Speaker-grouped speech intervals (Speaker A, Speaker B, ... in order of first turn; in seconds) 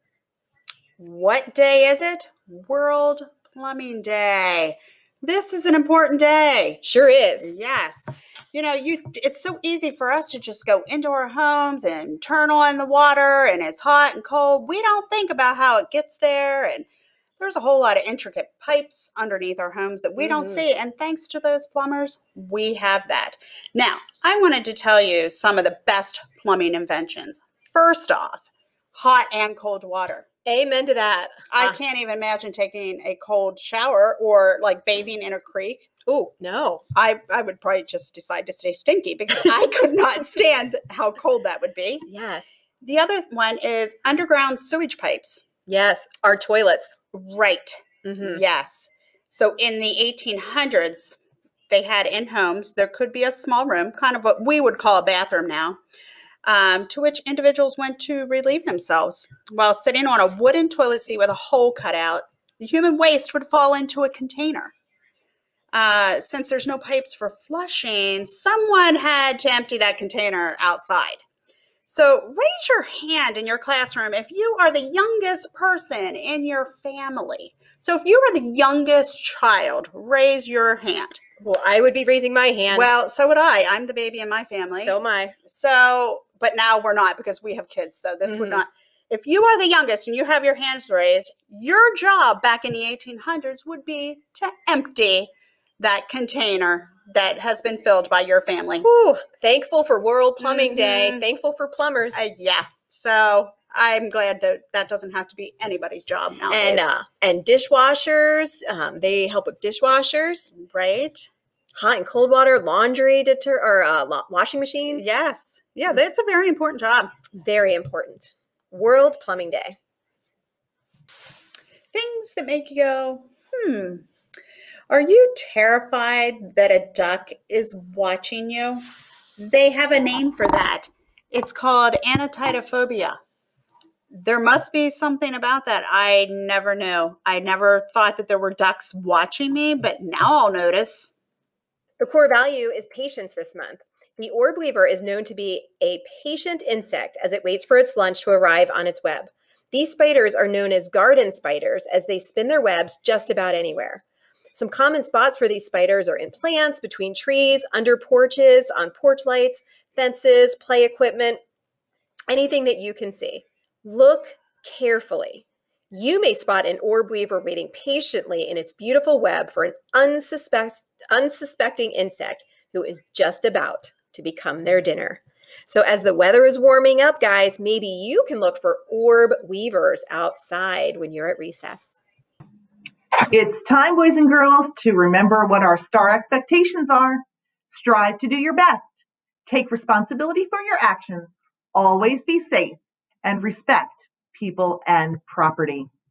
Speaker A: 1.0-6.8, 7.4-16.9, 17.4-30.2, 31.5-35.9, 37.0-42.1, 42.8-45.4, 47.1-51.2, 51.7-55.8, 56.4-64.7, 65.7-71.2, 71.9-81.2, 82.7-98.9, 100.4-101.3, 102.1-106.8, 110.5-111.3, 114.9-117.1, 121.9-124.1, 124.9-128.8, 129.4-133.2, 134.1-141.1
Speaker B: 6.8-7.5, 20.2-20.6, 30.5-31.8, 36.0-36.8, 42.1-42.6, 45.7-47.0, 48.0-48.4, 81.4-82.9, 84.8-85.4, 88.2-88.6, 98.8-102.2, 106.5-110.5, 111.8-115.0, 117.3-119.8, 142.0-154.0, 154.5-161.4, 162.3-182.0
Speaker C: 183.2-188.9, 189.5-195.9